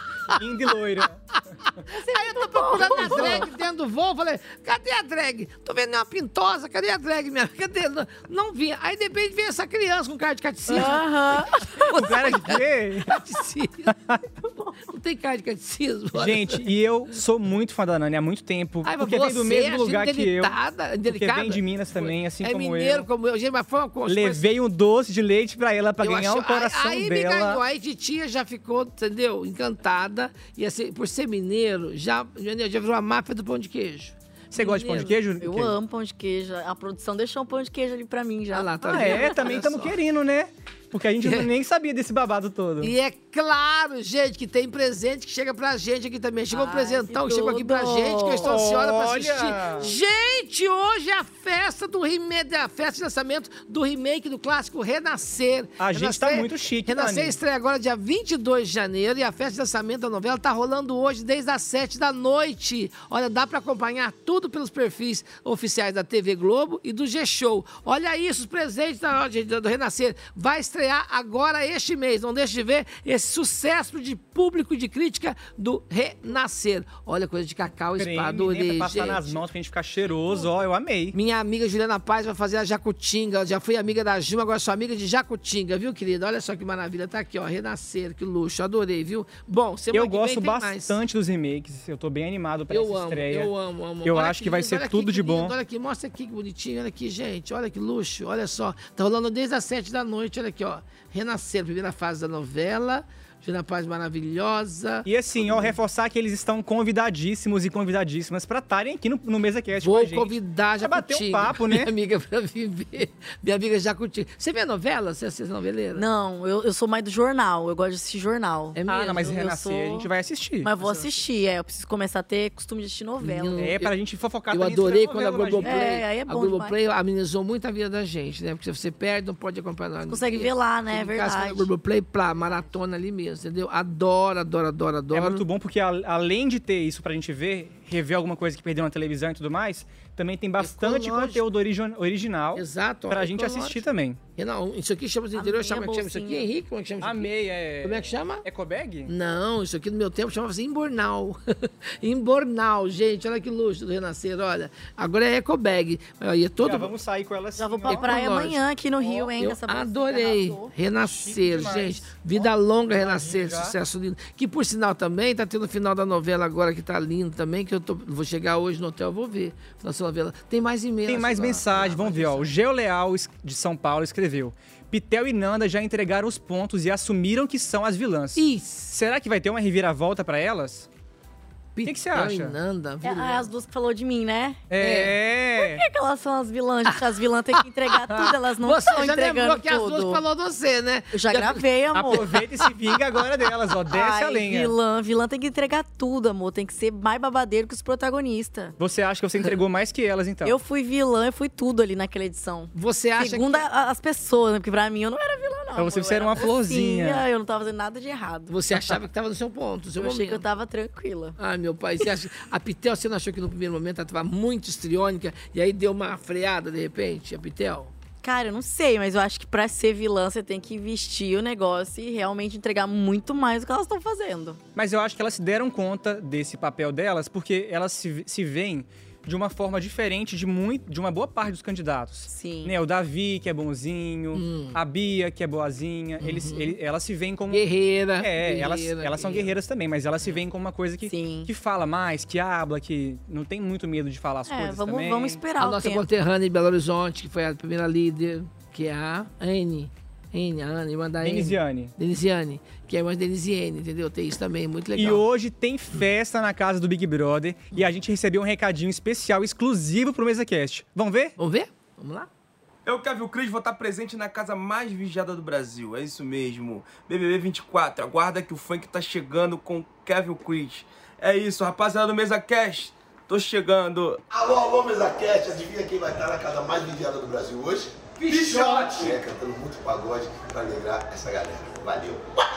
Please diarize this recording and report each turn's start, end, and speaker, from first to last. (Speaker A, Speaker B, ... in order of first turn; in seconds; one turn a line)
Speaker A: 0.3-1.2
Speaker B: 1.9-3.5
Speaker C: 2.0-13.9
Speaker A: 3.0-3.4
Speaker B: 10.7-11.9
Speaker A: 11.9-13.2
Speaker C: 14.9-16.6
Speaker A: 16.1-23.1
Speaker C: 18.8-24.4
Speaker A: 24.1-27.6
Speaker C: 26.0-35.1
Speaker A: 34.5-35.7
Speaker B: 35.4-39.4
Speaker C: 38.5-40.0
Speaker A: 38.9-42.9
Speaker C: 42.8-79.4
Speaker B: 46.5-48.5
Speaker A: 48.4-49.9
Speaker A: 55.8-57.4
Speaker A: 78.0-81.2
Speaker C: 81.1-90.9
Speaker A: 89.9-93.5
Speaker C: 92.7-105.7
Speaker A: 94.0-95.5
Speaker A: 105.0-111.9
Speaker C: 109.8-116.0
Speaker B: 115.9-120.1
Speaker C: 118.7-119.3
Speaker A: 118.9-120.7
Speaker B: 120.6-123.6
Speaker C: 120.8-121.2
Speaker C: 123.2-123.9
Speaker A: 123.6-125.9
Speaker C: 124.5-135.4
Speaker B: 125.6-126.7
Speaker B: 130.1-131.7
Speaker A: 135.1-144.2
Speaker C: 140.6-141.4
Speaker C: 142.6-143.8
Speaker C: 144.3-147.3
Speaker B: 145.3-146.5
Speaker A: 147.0-149.1
Speaker C: 147.8-148.4
Speaker C: 149.1-151.4
Speaker C: 152.0-156.9
Speaker A: 156.6-158.4
Speaker B: 157.6-160.7
Speaker C: 157.9-172.5
Speaker A: 161.0-163.8
Speaker A: 171.1-180.9
Speaker C: 178.3-178.9
Speaker C: 181.7-183.5
Speaker A: 181.8-182.6
Speaker B: 183.0-184.6
Speaker A: 184.7-185.8
Speaker C: 184.8-185.1
Speaker B: 185.6-190.2
Speaker C: 187.9-192.7
Speaker B: 191.1-192.2
Speaker A: 191.9-194.7
Speaker B: 193.9-198.7
Speaker A: 198.8-200.6
Speaker B: 200.4-208.5
Speaker C: 202.7-203.6
Speaker A: 205.8-207.2
Speaker C: 208.5-210.4
Speaker B: 210.0-211.4
Speaker C: 211.4-217.9
Speaker B: 218.2-224.6
Speaker A: 224.8-237.6
Speaker B: 232.3-232.7
Speaker C: 234.3-234.8
Speaker C: 236.2-236.7
Speaker C: 237.5-239.5
Speaker A: 238.2-245.4
Speaker B: 241.1-241.5
Speaker B: 244.5-246.1
Speaker C: 245.6-255.2
Speaker A: 251.2-251.9
Speaker A: 254.9-261.4
Speaker C: 261.4-262.3
Speaker D: 262.8-274.2
Speaker E: 274.4-277.9
Speaker D: 278.3-278.9
Speaker E: 278.6-282.1